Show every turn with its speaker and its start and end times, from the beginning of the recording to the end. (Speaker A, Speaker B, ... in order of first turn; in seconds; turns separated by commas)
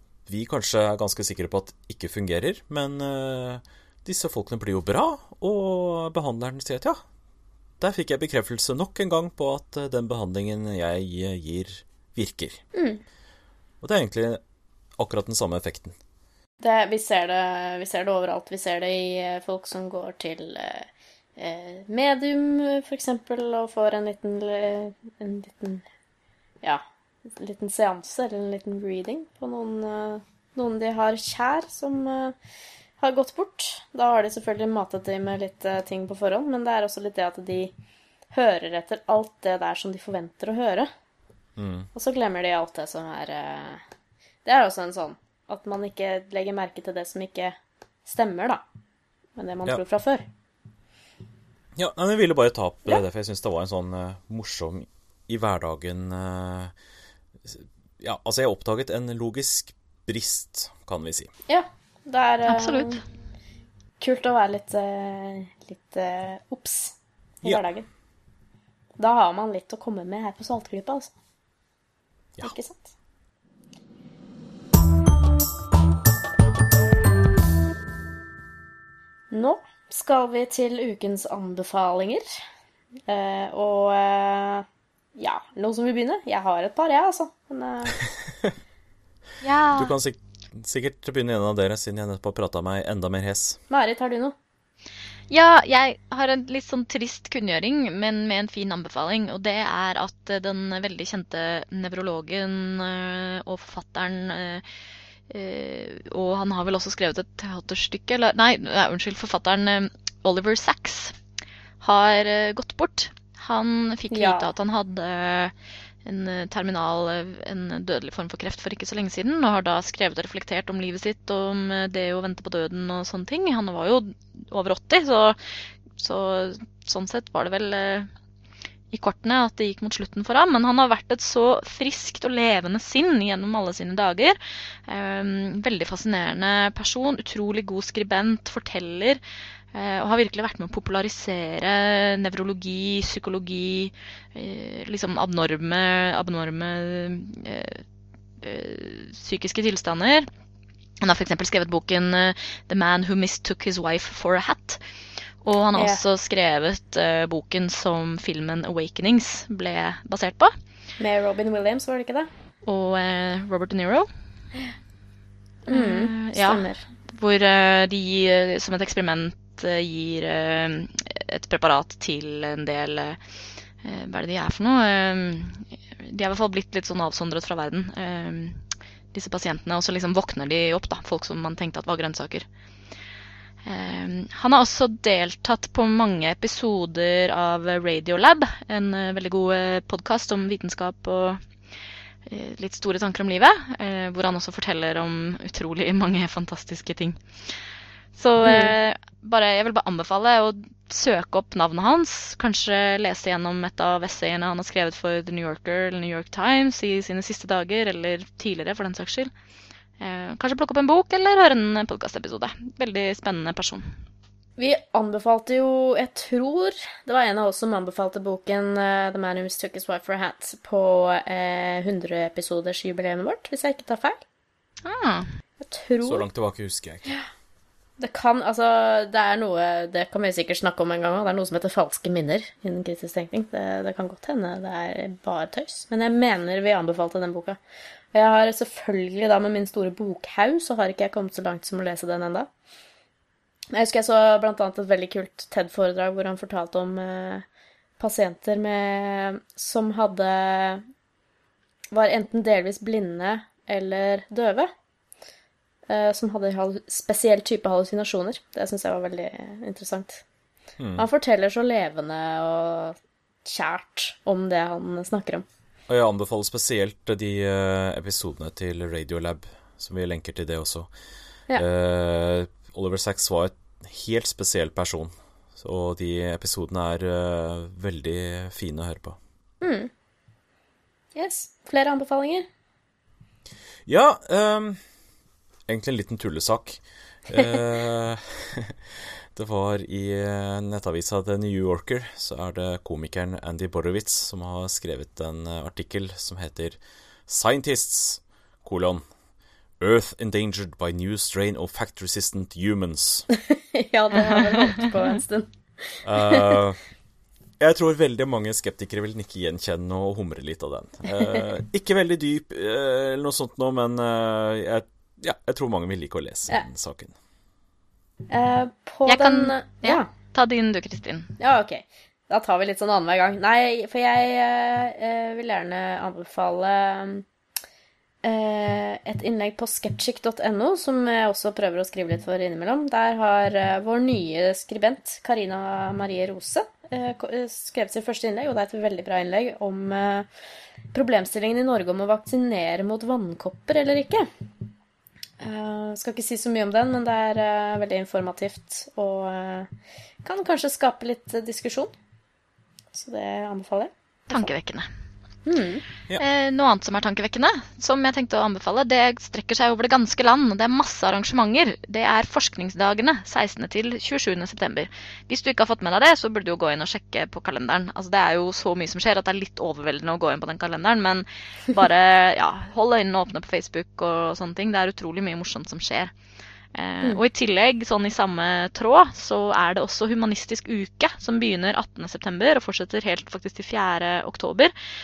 Speaker A: 0.3-7.0, Speaker A: 7.8-12.6, Speaker B: 12.7-13.0, Speaker A: 13.8-14.4, Speaker A: 15.0-15.9, Speaker B: 16.6-25.8, Speaker B: 27.4-32.4, Speaker B: 33.0-37.7, Speaker B: 38.3-40.9, Speaker A: 41.6-41.9, Speaker B: 41.9-43.8, Speaker B: 44.5-48.6, Speaker B: 49.4-50.3, Speaker A: 51.8-56.7, Speaker A: 57.5-61.3, Speaker B: 61.5-63.0, Speaker C: 62.5-63.0, Speaker B: 64.0-67.9, Speaker B: 69.0-71.1, Speaker B: 72.4-72.9, Speaker B: 79.3-82.3, Speaker B: 83.1-88.0, Speaker A: 88.2-88.5, Speaker C: 89.4-89.9, Speaker A: 89.8-93.6, Speaker B: 93.7-94.3, Speaker C: 95.3-104.7, Speaker C: 105.3-111.2, Speaker C: 111.8-115.5, Speaker B: 114.1-114.5, Speaker C: 116.0-125.4, Speaker C: 126.0-128.1, Speaker C: 128.9-139.2, Speaker C: 139.7-147.8, Speaker C: 148.4-150.3, Speaker C: 151.0-154.8, Speaker C: 155.4-160.5, Speaker B: 155.8-156.0, Speaker B: 161.0-162.3, Speaker C: 162.7-164.1, Speaker B: 165.7-166.8, Speaker C: 165.7-173.2, Speaker C: 173.8-178.6, Speaker C: 179.1-182.4, Speaker C: 183.7-191.4, Speaker C: 192.3-197.6, Speaker C: 198.2-209.3, Speaker B: 198.4-198.7, Speaker C: 210.0-213.9, Speaker B: 214.6-224.2, Speaker C: 224.8-225.3, Speaker B: 225.6-226.3, Speaker A: 226.0-227.1, Speaker B: 228.0-237.6, Speaker B: 238.1-242.5, Speaker B: 243.7-247.4, Speaker B: 248.0-250.8, Speaker B: 251.9-254.7, Speaker B: 255.9-260.2, Speaker A: 260.8-261.1, Speaker B: 261.0-265.4, Speaker A: 265.9-270.9, Speaker A: 271.6-279.2, Speaker B: 279.6-279.9, Speaker B: 281.1-282.5, Speaker A: 283.9-284.8, Speaker A: 285.7-299.0, Speaker A: 299.8-303.3, Speaker B: 303.3-306.6, Speaker A: 306.0-306.8, Speaker A: 307.6-317.1, Speaker B: 311.2-311.5, Speaker B: 318.3-320.1, Speaker C: 319.1-321.3, Speaker B: 321.4-327.2, Speaker B: 328.2-340.3, Speaker B: 340.9-344.3, Speaker B: 345.4-349.7, Speaker B: 350.2-351.9, Speaker B: 352.9-354.5, Speaker C: 354.3-354.9, Speaker B: 355.5-355.8, Speaker C: 356.2-376.1, Speaker C: 376.8-384.7